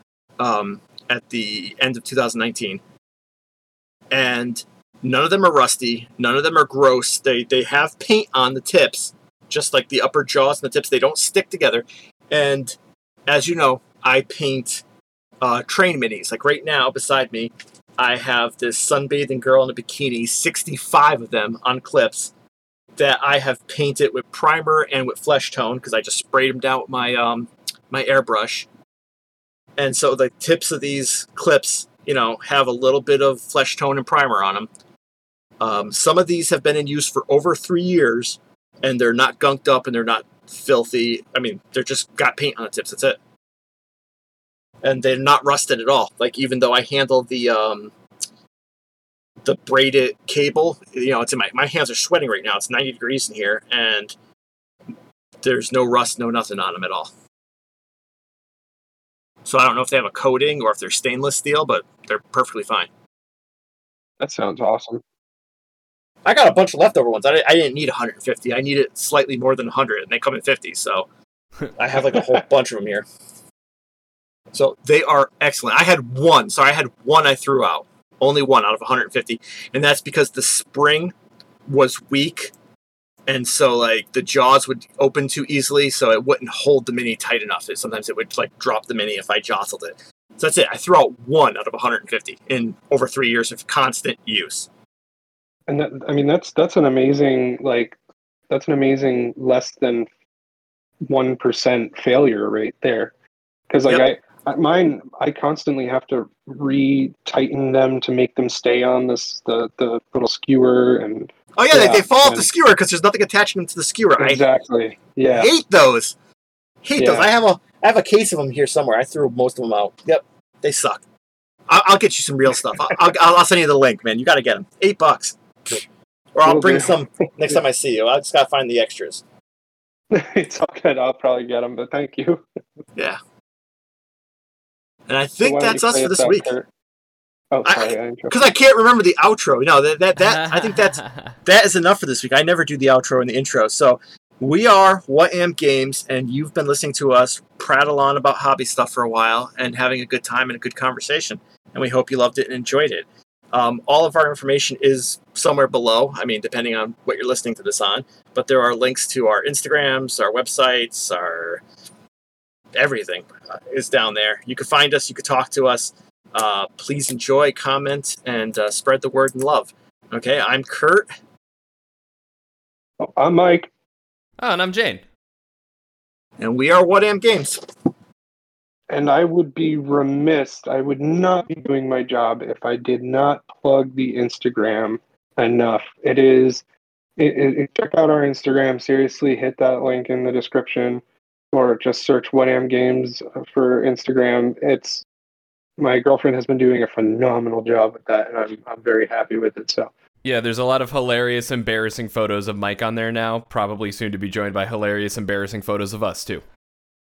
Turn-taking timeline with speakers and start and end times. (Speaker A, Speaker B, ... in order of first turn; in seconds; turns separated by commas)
Speaker A: 0.4-2.8, Speaker A: 4.1-12.8, Speaker A: 13.3-14.8, Speaker A: 15.4-22.3, Speaker A: 23.0-28.7, Speaker A: 29.8-34.7, Speaker A: 35.6-43.2, Speaker A: 44.8-47.9, Speaker A: 49.4-54.1, Speaker A: 55.4-57.1, Speaker A: 59.5-62.9, Speaker B: 64.2-65.0, Speaker A: 66.2-71.1, Speaker A: 71.7-73.0, Speaker A: 74.5-81.1, Speaker A: 81.7-82.5, Speaker A: 83.3-94.7, Speaker B: 95.7-98.0, Speaker B: 98.5-100.1, Speaker B: 101.1-103.1, Speaker B: 103.7-112.5, Speaker A: 111.5-114.5, Speaker B: 114.2-115.5, Speaker A: 115.3-116.2, Speaker A: 116.8-121.0, Speaker B: 117.0-117.3, Speaker A: 121.7-129.2, Speaker B: 126.5-127.6, Speaker B: 130.1-132.4, Speaker A: 135.1-136.5, Speaker B: 135.4-136.7, Speaker B: 137.5-138.5, Speaker A: 137.7-161.6, Speaker C: 140.2-141.4, Speaker A: 162.8-171.1, Speaker B: 173.0-173.7, Speaker C: 174.4-175.0, Speaker A: 176.4-177.6, Speaker B: 178.9-186.6, Speaker B: 187.2-195.1, Speaker B: 195.8-199.9, Speaker C: 200.2-206.4